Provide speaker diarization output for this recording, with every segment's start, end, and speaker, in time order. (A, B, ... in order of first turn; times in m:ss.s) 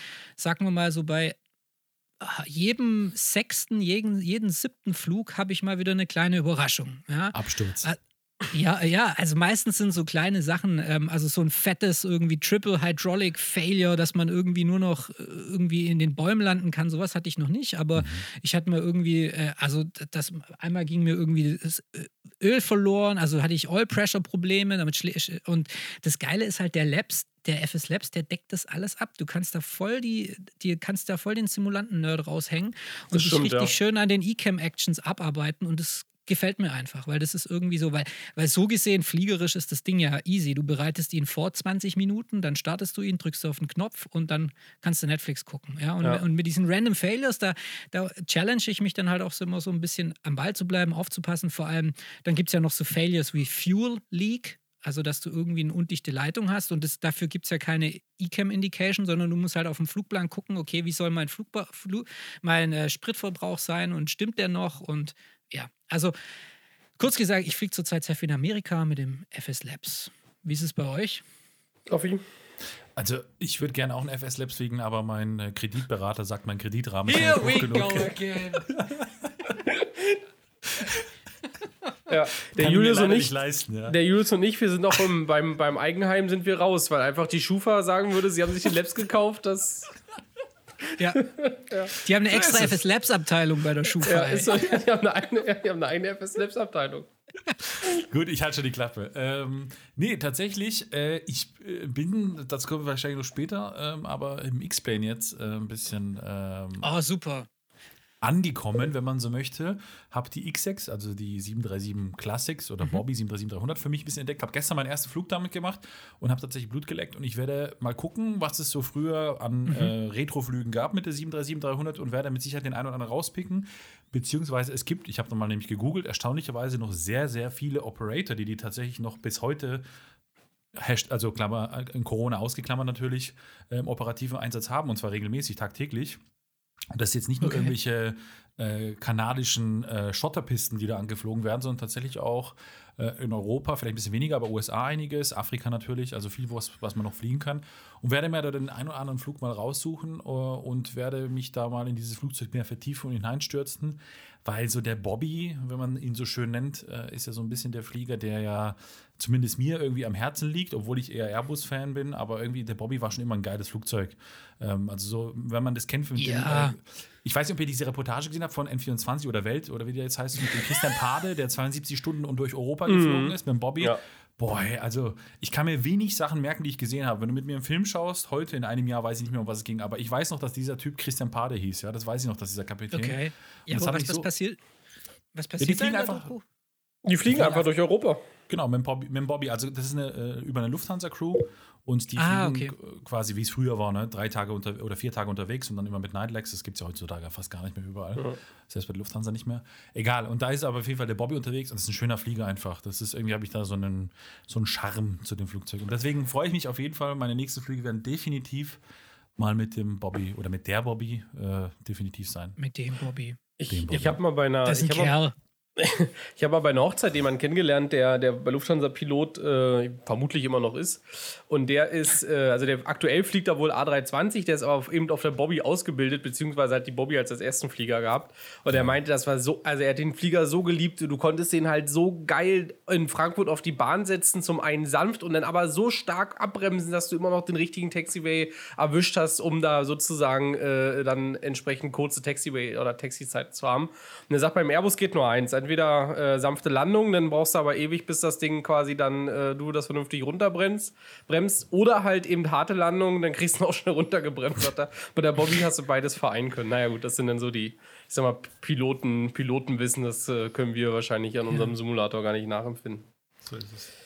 0:00.4-0:01.4 A
0:02.2-0:08.0 A
0:07.3-0:07.9 B
0:08.5-1:06.1 A
0:18.0-0:18.2 B
0:33.1-0:33.7 C
1:07.0-1:11.2 A
1:11.9-1:12.2 C
1:13.0-1:19.5 B
1:17.1-1:18.7 A
1:20.7-1:21.0 B
1:22.1-1:23.3 C
1:22.5-1:24.0 B
1:23.8-1:29.9 C
1:31.0-1:31.3 A
1:31.2-1:32.6 C
1:32.0-1:34.6 A
1:34.0-1:37.1 C
1:37.6-1:46.9 B
1:46.8-1:47.5 A
1:48.2-2:09.8 B
1:59.7-1:59.9 A
2:10.7-2:16.2 B
2:16.9-3:04.3 B
2:17.4-2:17.7 A
2:46.2-2:46.7 A
2:52.9-2:54.0 C
3:02.9-3:04.6 A
3:05.3-3:06.4 A
3:05.6-3:06.3 B
3:07.0-3:08.2 C
3:07.3-3:07.6 A
3:08.5-3:28.8 B
3:12.2-3:12.7 A
3:29.4-3:32.6 B
3:32.6-3:33.4 A
3:33.6-3:35.2 C
3:33.7-3:34.2 B
3:34.6-3:35.3 A
3:35.8-4:23.0 C
4:23.4-4:23.9 B